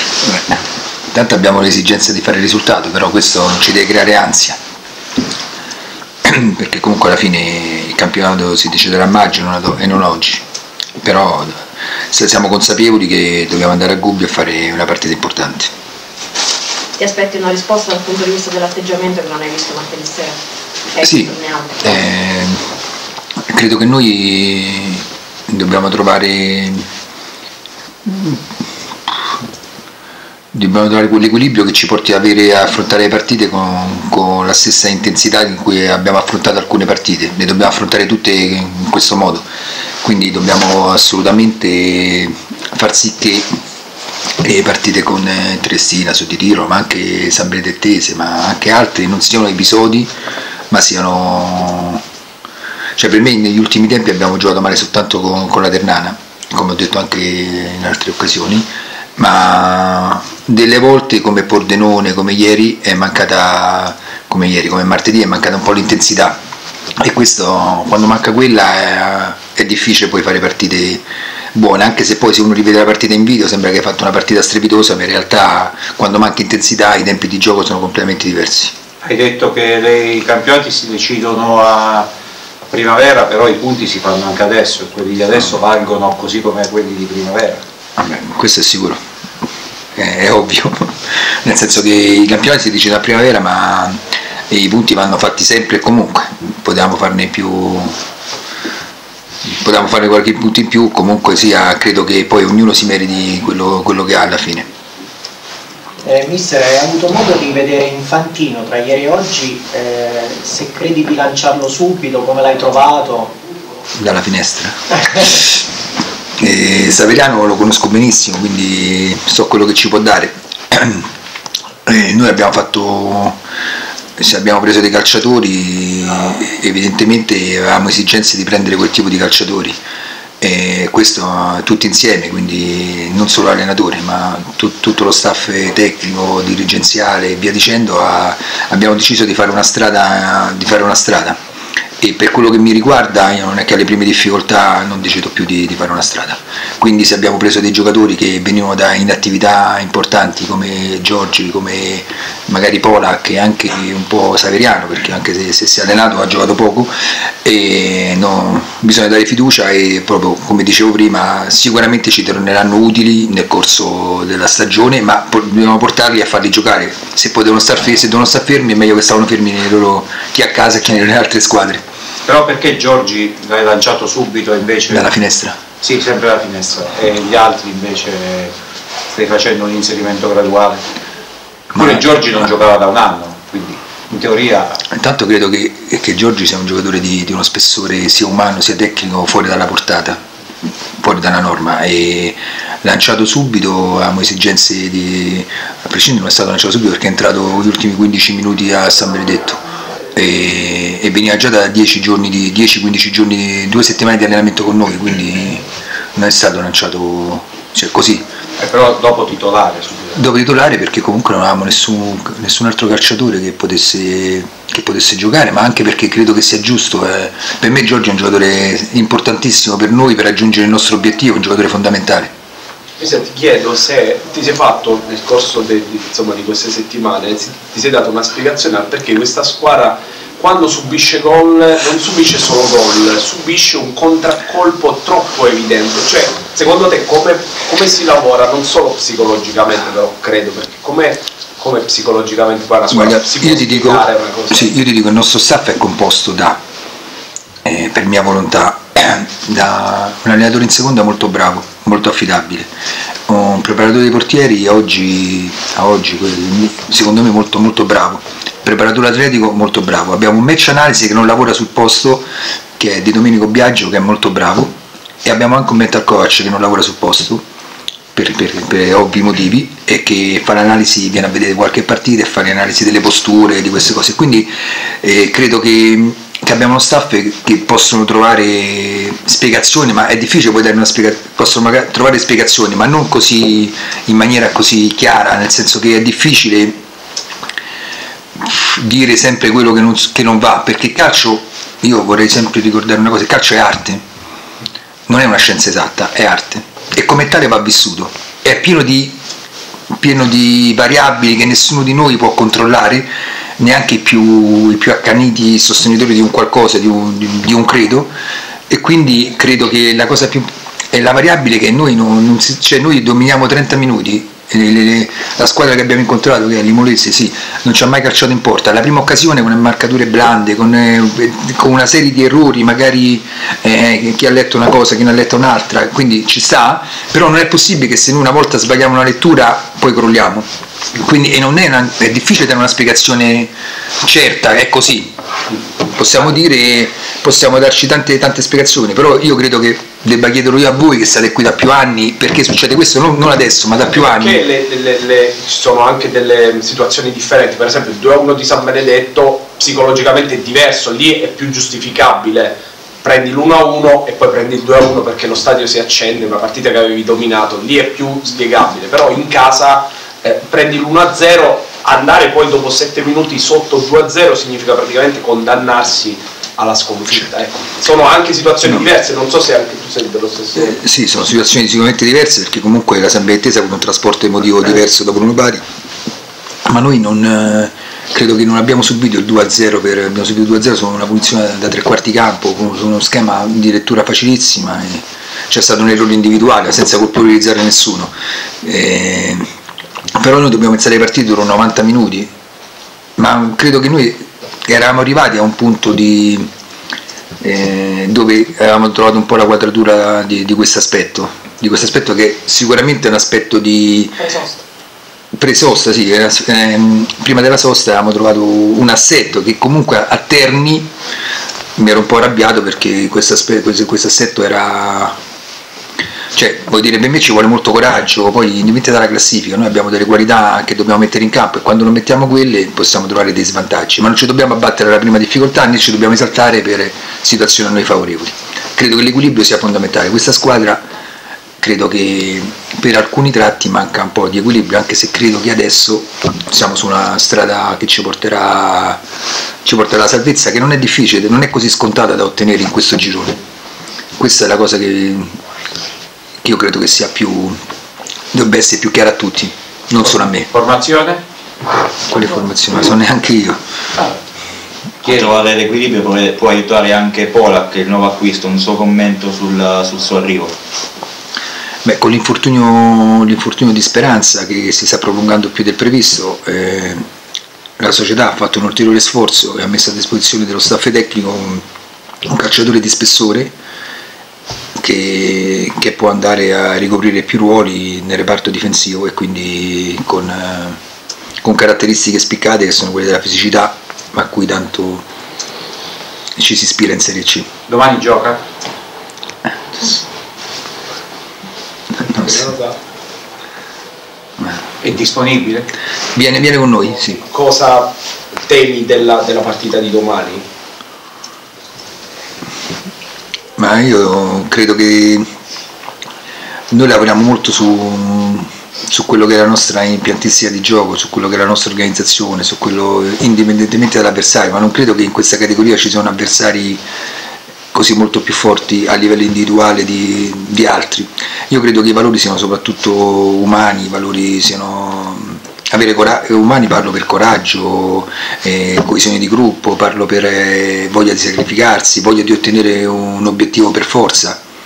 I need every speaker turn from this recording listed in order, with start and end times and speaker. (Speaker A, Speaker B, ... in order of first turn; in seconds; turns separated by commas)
Speaker A: 0.2-0.6, Speaker A: 1.1-4.6, Speaker A: 6.2-10.4, Speaker A: 11.0-15.7, Speaker B: 17.0-20.4, Speaker B: 20.9-21.8, Speaker A: 21.0-22.6, Speaker A: 23.5-26.9, Speaker A: 28.1-28.4, Speaker A: 30.5-39.5, Speaker A: 40.0-43.5, Speaker A: 44.4-50.1, Speaker A: 50.7-52.0, Speaker A: 53.0-66.4, Speaker A: 67.0-71.0, Speaker A: 71.5-78.8, Speaker C: 79.0-82.1, Speaker C: 82.7-87.6, Speaker A: 88.0-89.0, Speaker A: 90.0-94.0, Speaker A: 94.5-98.0, Speaker A: 99.4-104.7, Speaker D: 106.0-113.3, Speaker A: 114.0-115.4, Speaker A: 116.4-121.1, Speaker A: 121.9-123.4, Speaker A: 124.2-129.8, Speaker A: 130.4-141.4, Speaker A: 142.0-171.8, Speaker C: 172.3-175.1, Speaker A: 174.9-175.6, Speaker C: 175.8-178.5, Speaker C: 179.1-180.8, Speaker C: 181.7-184.8, Speaker A: 181.8-182.0, Speaker A: 184.9-190.2, Speaker A: 191.0-199.6, Speaker A: 200.2-208.2, Speaker C: 208.6-210.2, Speaker A: 210.2-222.3, Speaker E: 223.0-244.7, Speaker A: 242.9-246.6, Speaker A: 247.7-252.7, Speaker A: 253.3-264.7, Speaker A: 265.2-267.4, Speaker A: 268.1-286.8, Speaker A: 288.4-294.0, Speaker A: 295.1-299.2, Speaker A: 300.0-303.1, Speaker A: 303.6-308.1, Speaker A: 308.7-333.5, Speaker A: 334.0-335.1, Speaker A: 335.8-344.4, Speaker E: 343.9-370.8, Speaker A: 370.6-375.6, Speaker A: 376.6-389.4, Speaker A: 390.2-392.3, Speaker A: 393.2-396.5, Speaker A: 397.4-404.4, Speaker B: 404.3-404.6, Speaker A: 405.4-410.9, Speaker A: 411.8-415.1, Speaker A: 416.3-430.9, Speaker A: 431.6-439.0, Speaker A: 439.6-443.4, Speaker A: 444.2-445.4, Speaker A: 446.4-447.6, Speaker A: 448.3-450.5, Speaker C: 450.5-451.2, Speaker A: 452.1-453.6, Speaker F: 455.0-460.6, Speaker C: 455.0-455.4, Speaker A: 461.9-467.0, Speaker A: 467.8-471.6, Speaker A: 472.2-473.5, Speaker A: 474.8-480.8, Speaker A: 481.4-485.0, Speaker A: 486.4-487.5, Speaker C: 487.7-488.4, Speaker E: 492.1-492.8, Speaker C: 494.8-495.7, Speaker A: 496.1-497.2, Speaker E: 497.2-497.9, Speaker E: 498.4-500.4, Speaker A: 503.6-505.2, Speaker A: 506.7-516.8, Speaker A: 517.7-534.4